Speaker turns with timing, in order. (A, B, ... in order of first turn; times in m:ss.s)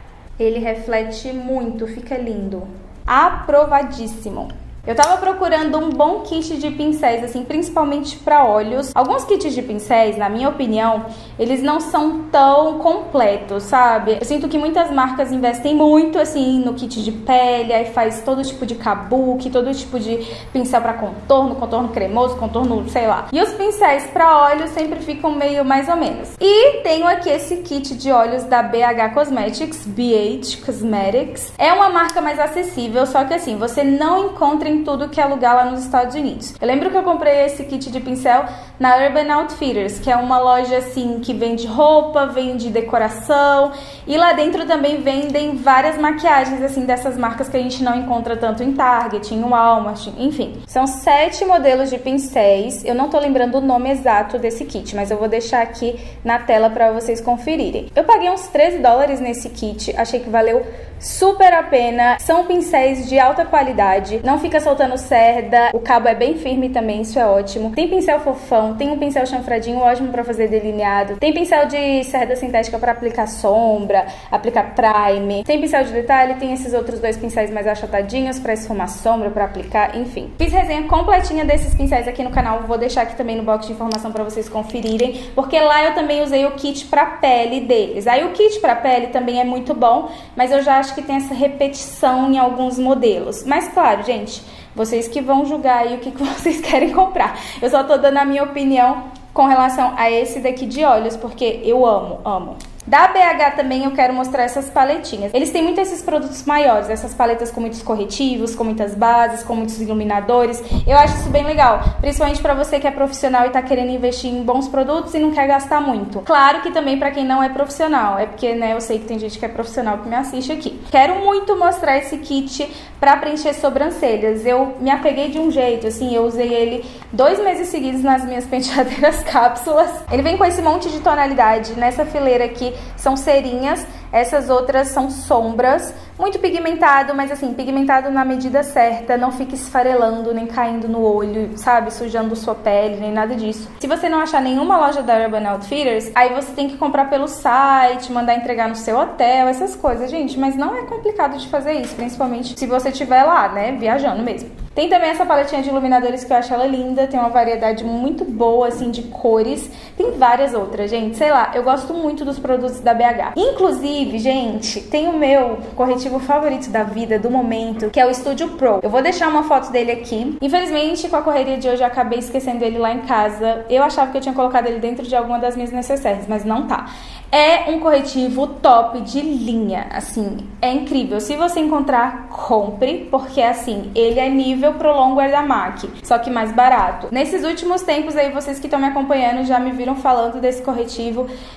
0:00.4-3:11.3 A